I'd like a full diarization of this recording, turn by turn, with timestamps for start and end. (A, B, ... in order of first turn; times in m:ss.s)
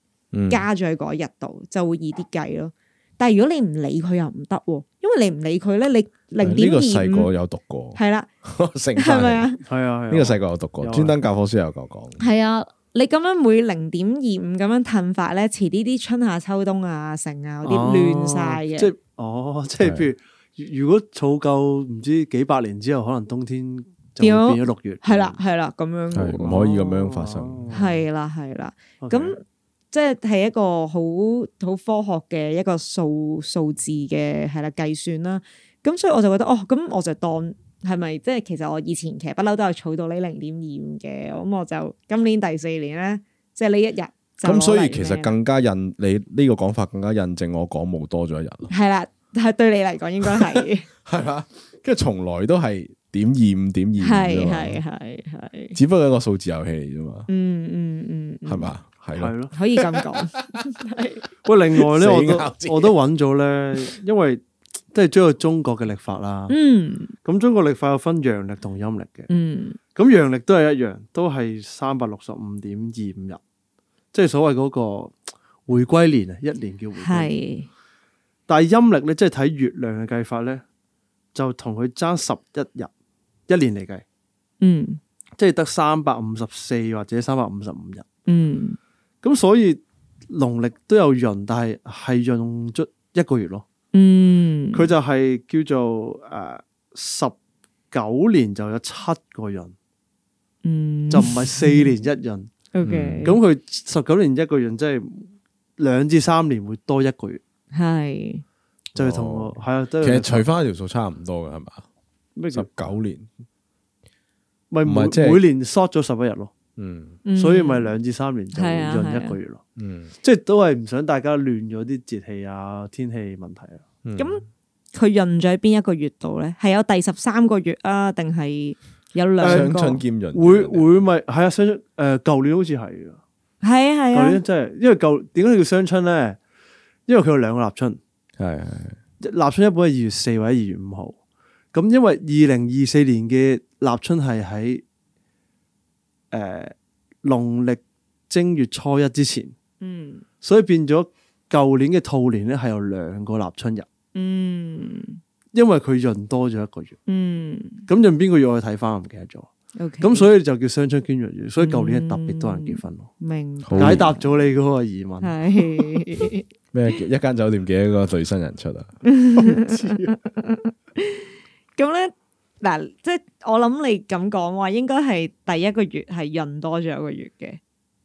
0:00.3-0:00.6 A
0:00.5-0:07.3 B
0:06.4-0:09.5 A
0:07.9-0:08.3 B
0:09.0-0:09.6 B
0:09.6-0:11.2 C
0:10.1-0:12.2 A
0:12.2-0:18.9 B
0:17.6-0:25.4 C
0:19.8-0:20.1 A
0:24.2-0:26.8 B
0:26.1-0:27.7 A
0:26.4-0:28.0 C
0:27.7-0:45.3 B
0:29.0-0:29.3 C
0:44.4-0:48.7 A
0:48.7-0:50.9 B
0:51.0-0:54.8 A
0:54.0-0:55.8 B
0:55.7-0:57.3 A
0:57.3-0:58.7 B
0:58.4-1:00.6 A
0:59.1-0:59.5 C
0:59.5-1:01.2 B
1:01.4-1:06.5 C
1:01.8-1:02.9 A
1:06.5-1:07.1 B
1:07.2-1:09.3 C
1:09.3-1:09.8 B
1:09.9-1:13.4 C
1:14.1-1:15.1 C
1:15.7-1:17.3 C
1:17.0-1:17.7 B
1:18.5-1:20.6 C
1:21.3-1:22.9 C
1:23.5-1:24.0 C
1:24.6-1:25.0 B
1:25.4-1:28.0 C
1:28.2-1:28.8 B
1:29.2-1:33.6 C
1:33.9-1:34.9 B
1:34.7-1:37.3 C
1:37.9-1:39.7 C
1:40.6-1:41.9 B
1:41.1-1:42.5 C
1:42.7-1:43.4 B
1:42.8-1:43.3 A
1:43.2-1:47.4 C
1:47.7-1:48.4 B
1:48.9-1:50.4 C
1:49.0-1:51.8 A
1:52.4-1:52.8 C
1:52.5-1:53.3 A
1:54.7-1:56.5 C
1:54.8-1:55.4 A
1:56.8-1:57.2 A
1:57.2-1:57.9 B
1:57.4-1:59.6 C
1:58.5-1:59.4 B
1:59.8-2:00.1 A
2:00.2-2:03.8 C
2:04.0-2:04.4 A
2:04.2-2:04.4 B
2:04.9-2:10.0 B
2:09.4-2:09.7 C
2:09.4-2:11.0 A
2:10.3-2:13.2 C
2:13.6-2:14.4 B
2:14.1-2:16.4 C
2:17.1-2:18.0 C
2:18.4-2:19.0 A
2:19.2-2:21.2 C
2:21.7-2:24.8 C
2:26.3-2:29.5 C
2:29.8-2:30.2 B
2:30.4-2:33.9 C
2:34.1-2:35.2 B
2:35.5-2:37.0 C
2:37.1-2:37.9 B
2:37.9-2:39.5 C
2:39.8-2:40.3 B
2:40.0-2:43.1 C
2:41.6-2:44.5 B
2:43.6-2:44.1 A
2:43.8-2:46.0 C
2:45.2-2:46.4 B
2:46.7-2:49.0 A
2:49.0-2:57.6 B
2:49.4-2:50.2 C